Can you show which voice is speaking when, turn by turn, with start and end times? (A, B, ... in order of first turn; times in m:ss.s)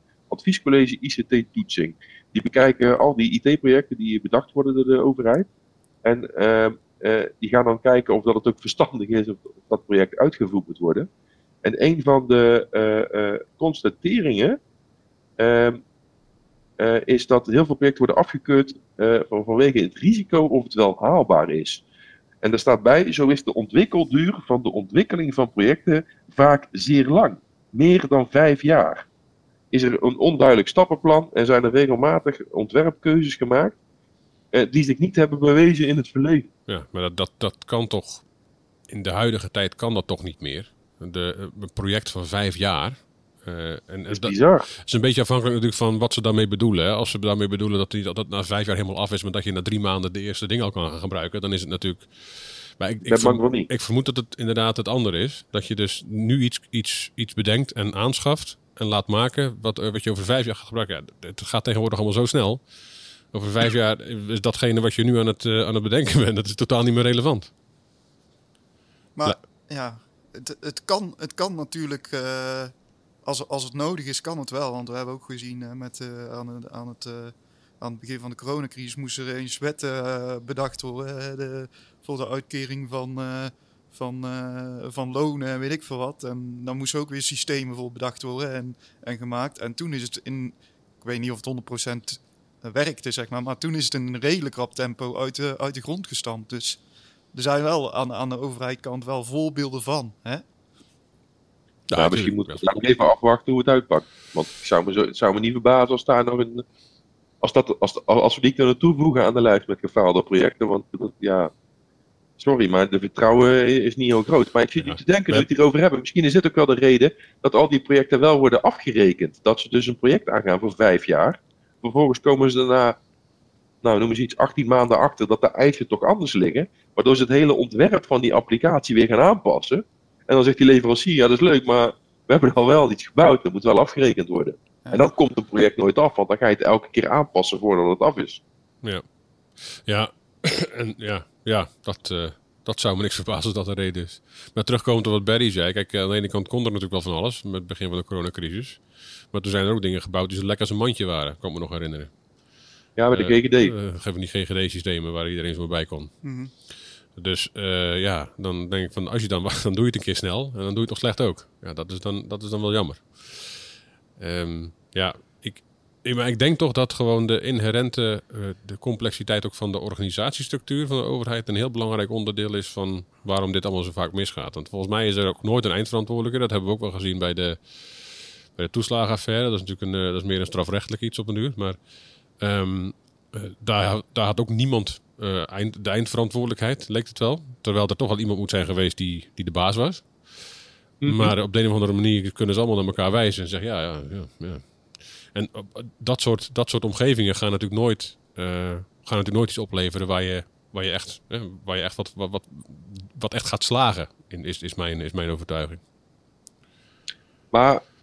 0:00.3-0:05.5 A
0:06.0-0:11.1 A
0:11.6-0:14.6 A
0:15.4-0:15.8 A
0:16.8-0:21.8 A
0:22.4-0:29.0 A
0:29.7-0:33.8 A
0:34.5-0:36.5 A
0:36.7-0:38.2 B
0:38.9-1:02.6 B
0:44.1-0:44.7 A
0:53.0-0:53.7 A
1:03.3-1:07.5 B
1:09.1-1:36.8 C
1:37.3-1:40.4 C
1:41.9-1:42.6 B
1:41.9-1:46.6 A
1:47.4-1:51.5 A
1:52.4-2:03.0 A
1:54.8-1:55.4 B
2:03.8-2:18.4 A
2:19.6-2:32.1 B
2:33.0-2:33.7 A
2:33.1-2:36.1 B
2:36.2-2:36.5 C
2:37.1-3:01.8 B
3:02.4-3:10.5 B
3:11.0-3:11.3 A
3:11.1-3:25.8 B
3:27.5-3:27.8 A